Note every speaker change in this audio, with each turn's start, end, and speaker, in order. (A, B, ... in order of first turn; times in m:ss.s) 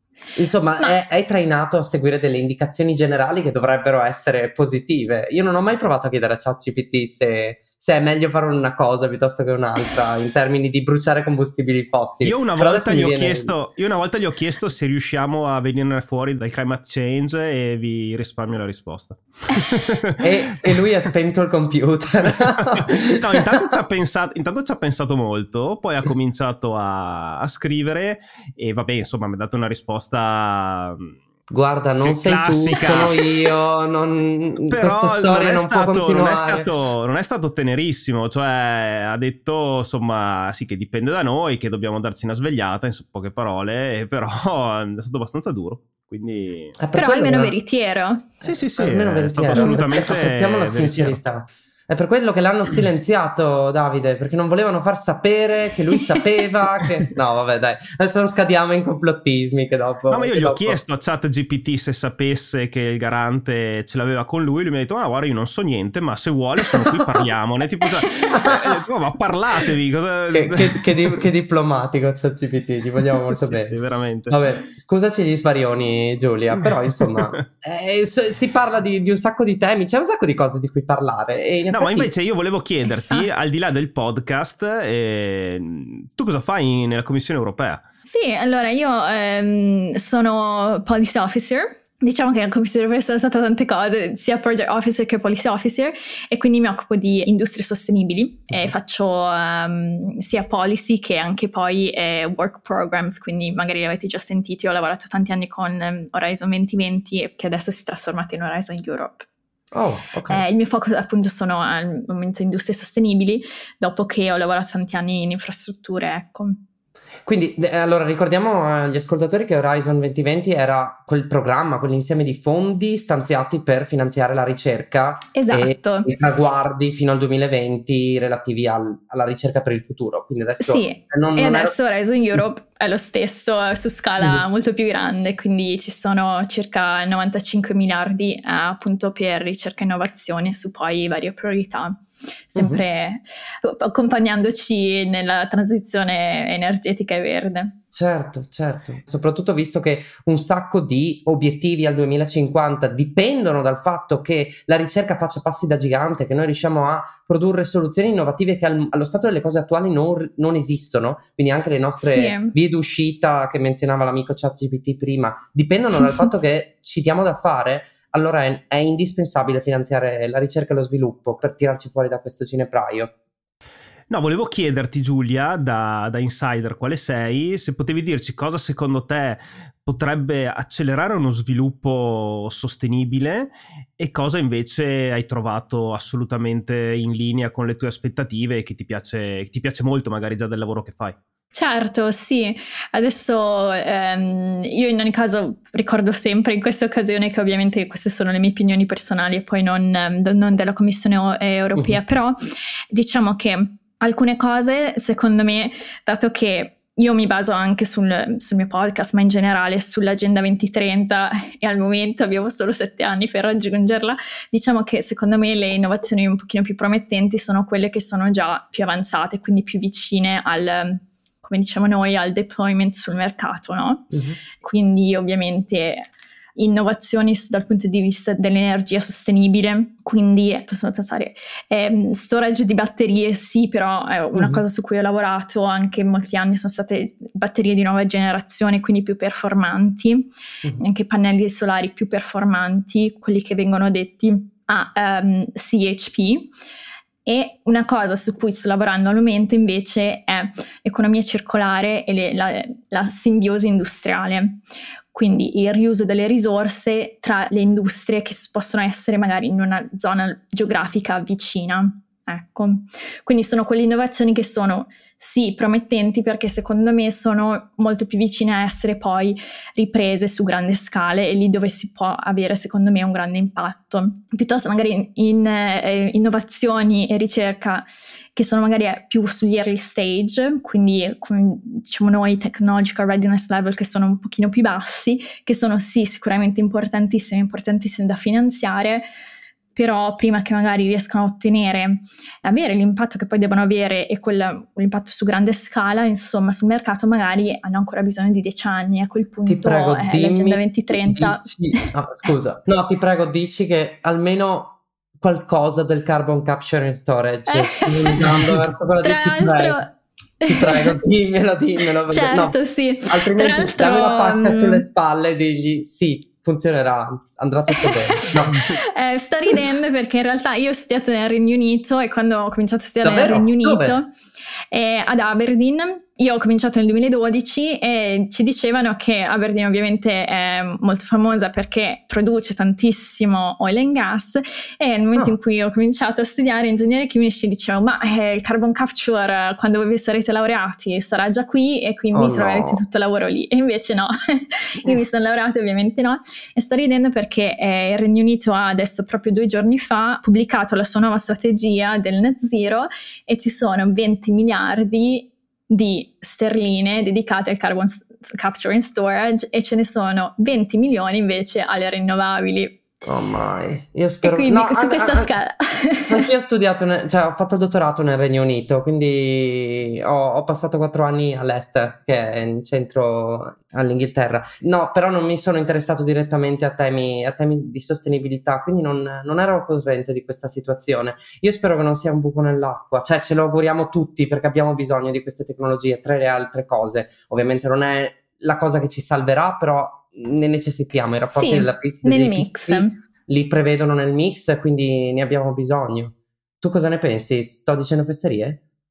0:00.4-0:13.5 A
0:12.2-0:20.2 B
0:20.2-0:23.1 A
0:22.7-0:31.2 B
0:31.5-0:36.7 A
0:32.0-0:33.5 B
0:34.7-0:46.8 B
0:46.8-0:47.6 A
0:47.0-0:48.3 C
0:48.4-1:00.8 A
0:48.4-0:51.2 B
0:49.5-0:49.8 C
1:00.1-1:11.2 B
1:10.3-1:13.8 A
1:13.3-1:14.4 B
1:14.3-1:22.1 A
1:16.9-1:17.4 B
1:21.7-1:27.8 B
1:28.1-1:49.3 C
1:49.7-1:50.4 A
1:50.3-1:56.6 C
1:57.2-2:11.8 A
2:05.3-2:06.1 C
2:10.6-2:27.7 C
2:14.2-2:14.5 A
2:22.6-2:22.8 A
2:27.9-2:53.1 A
2:42.0-2:42.5 C
2:54.1-3:11.2 B
3:11.5-3:22.4 C
3:22.9-3:46.0 C
3:44.1-3:44.4 A
3:46.6-4:06.5 C
3:54.3-3:54.6 A
4:07.2-4:14.6 C
4:15.1-4:49.0 C
4:49.8-5:01.9 C
4:59.5-5:09.8 A
5:07.5-5:08.4 C
5:09.0-5:10.9 C
5:10.5-5:18.6 A
5:12.1-5:14.8 C
5:17.8-5:24.1 C
5:23.0-5:24.0 A
5:24.7-6:02.8 C
5:42.1-5:42.8 A
6:03.0-6:05.4 A
6:04.2-6:06.3 C
6:06.1-6:38.6 A
6:31.3-6:33.0 C